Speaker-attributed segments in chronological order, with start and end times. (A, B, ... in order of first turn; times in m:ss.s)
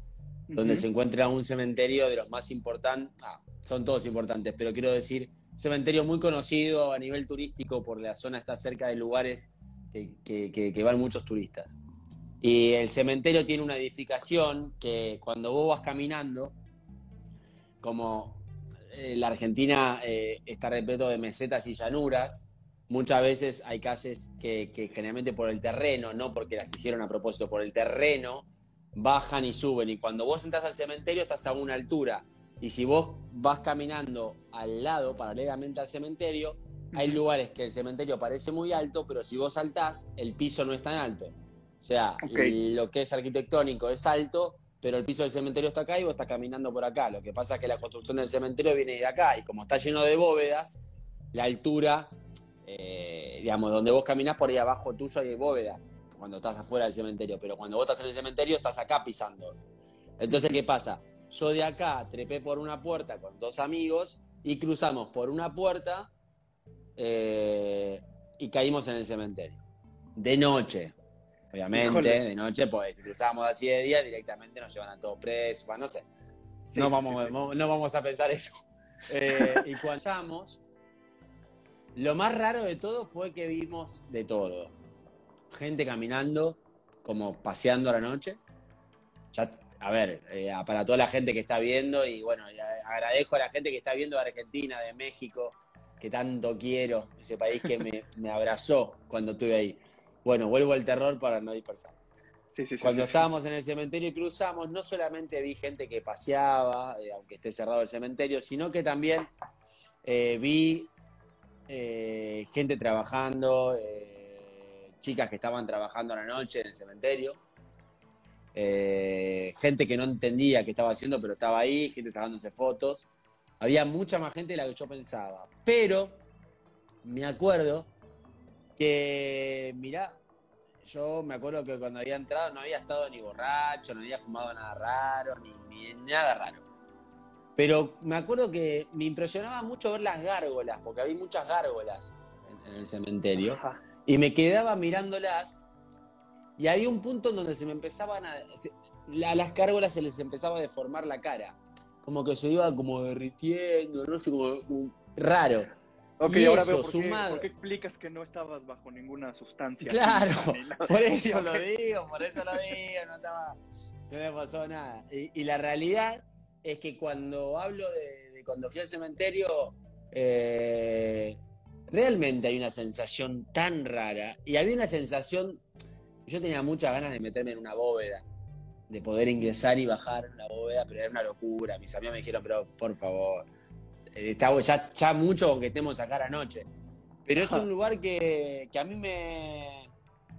0:00.5-0:00.9 A
0:00.6-0:11.7 B
0:12.4-0:16.6 B
0:17.8-0:50.8 B
0:42.2-0:42.6 A
0:51.3-0:59.6 B
1:00.2-1:06.1 B
1:00.3-1:00.6 A
1:07.0-1:09.6 B
1:10.2-1:11.0 B
1:11.5-1:16.1 B
1:11.7-1:12.2 A
1:16.7-1:17.3 A
1:16.8-1:20.6 B
1:19.3-1:19.6 A
1:22.0-1:24.7 B
1:25.5-1:28.4 B
1:29.3-1:42.0 B
1:42.5-1:43.3 A
1:42.8-1:49.3 B
1:50.0-1:50.9 B
1:51.7-1:57.4 B
1:58.6-2:03.1 B
2:03.6-2:06.2 B
2:07.0-2:07.9 B
2:08.8-2:10.2 B
2:10.8-2:16.6 B
2:17.6-2:25.7 B
2:23.4-2:23.8 A
2:26.6-2:35.7 B
2:36.2-2:41.7 A
2:36.2-2:37.5 B
2:39.8-2:55.6 B
2:42.3-2:42.6 A
2:56.3-2:58.2 B
2:58.9-3:03.5 B
3:04.1-3:06.7 B
3:07.2-3:09.9 B
3:07.4-3:07.7 A